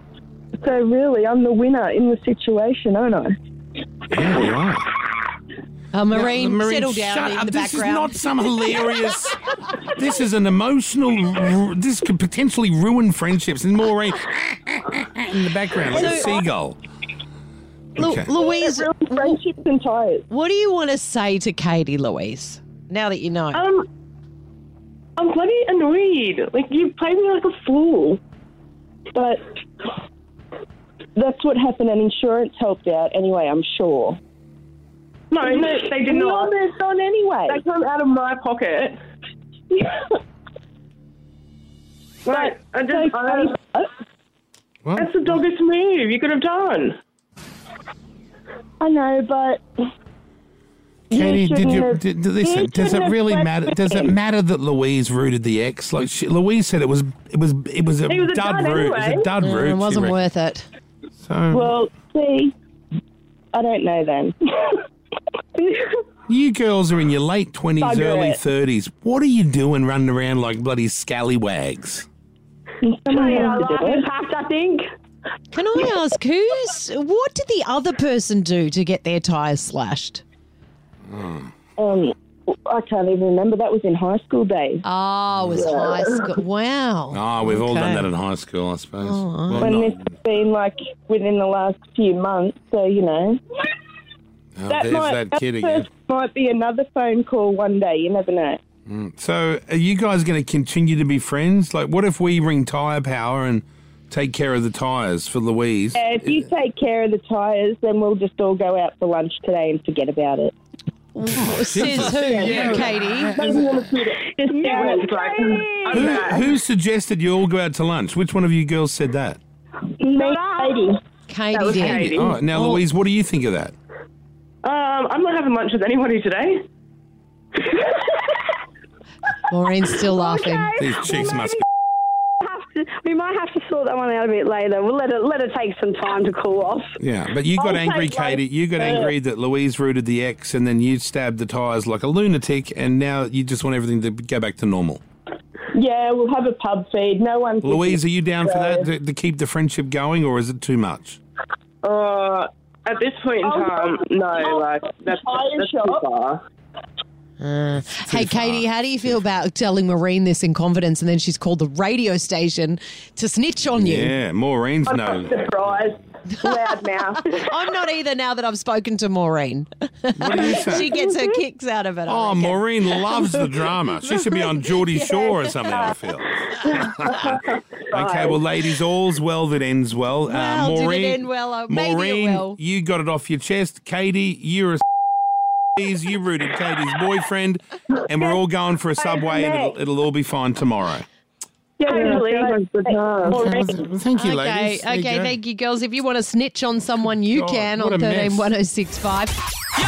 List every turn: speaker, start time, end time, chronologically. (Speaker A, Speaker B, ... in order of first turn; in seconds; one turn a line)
Speaker A: 0.6-3.3
Speaker B: 4.1-4.9
Speaker C: 5.9-8.3
Speaker B: 6.1-16.8
Speaker C: 15.8-16.4
Speaker C: 18.0-19.4
Speaker B: 18.0-18.3
Speaker A: 18.4-20.2
Speaker C: 20.3-23.6
Speaker D: 23.5-23.9
Speaker D: 25.2-28.2
Speaker A: 29.1-29.4
Speaker A: 31.1-34.2
Speaker D: 35.3-36.5
Speaker A: 35.4-37.6
Speaker D: 37.5-39.0
Speaker D: 42.2-43.5
Speaker A: 42.3-43.9
Speaker B: 44.8-45.4
Speaker D: 45.0-47.0
Speaker A: 48.8-49.6
Speaker A: 51.1-54.1
Speaker B: 51.1-60.2
Speaker A: 58.1-59.3
Speaker C: 59.4-60.7
Speaker B: 61.2-61.7
Speaker A: 61.5-62.5
Speaker A: 63.5-64.8
Speaker E: 65.5-66.0
Speaker B: 66.3-72.1
Speaker A: 67.8-68.4
Speaker A: 72.8-74.0
Speaker E: 73.1-74.8
Speaker C: 75.5-80.2
Speaker B: 81.1-81.5
Speaker A: 81.8-84.8
Speaker C: 84.8-88.1
Speaker B: 85.3-85.7
Speaker A: 85.5-86.2
Speaker B: 87.1-90.1
Speaker C: 89.0-89.7
Speaker A: 89.6-93.4
Speaker B: 94.5-95.9
Speaker A: 94.7-98.6
Speaker B: 98.9-106.4
Speaker A: 106.0-110.5
Speaker C: 111.1-113.4
Speaker B: 111.6-113.7
Speaker D: 111.8-116.4
Speaker A: 114.2-115.1
Speaker E: 114.4-116.2
Speaker B: 115.9-119.4
Speaker E: 119.9-120.9
Speaker A: 120.2-121.0
Speaker C: 121.3-122.8
Speaker D: 121.5-122.3
Speaker B: 122.1-123.7
Speaker D: 124.6-126.7
Speaker E: 127.6-128.1
Speaker C: 129.5-130.7
Speaker E: 130.1-131.6
Speaker B: 130.8-131.6
Speaker E: 132.4-136.9
Speaker B: 137.0-145.0
Speaker A: 137.6-139.1
Speaker A: 145.7-148.8
Speaker B: 147.6-151.2
Speaker D: 151.8-156.4
Speaker A: 153.4-156.0
Speaker C: 157.4-164.1
Speaker B: 158.0-158.7
Speaker B: 163.8-165.4
Speaker A: 164.8-167.4
Speaker C: 166.3-166.6
Speaker C: 167.2-173.5
Speaker B: 170.1-170.9
Speaker B: 172.1-177.3
Speaker C: 174.2-175.9
Speaker B: 177.9-184.8
Speaker C: 180.3-182.6
Speaker B: 185.8-191.1
Speaker E: 189.0-189.8
Speaker D: 191.8-193.3
Speaker A: 191.8-193.8
Speaker E: 191.8-193.7
Speaker B: 193.6-195.4
Speaker C: 194.1-199.3
Speaker B: 197.3-198.5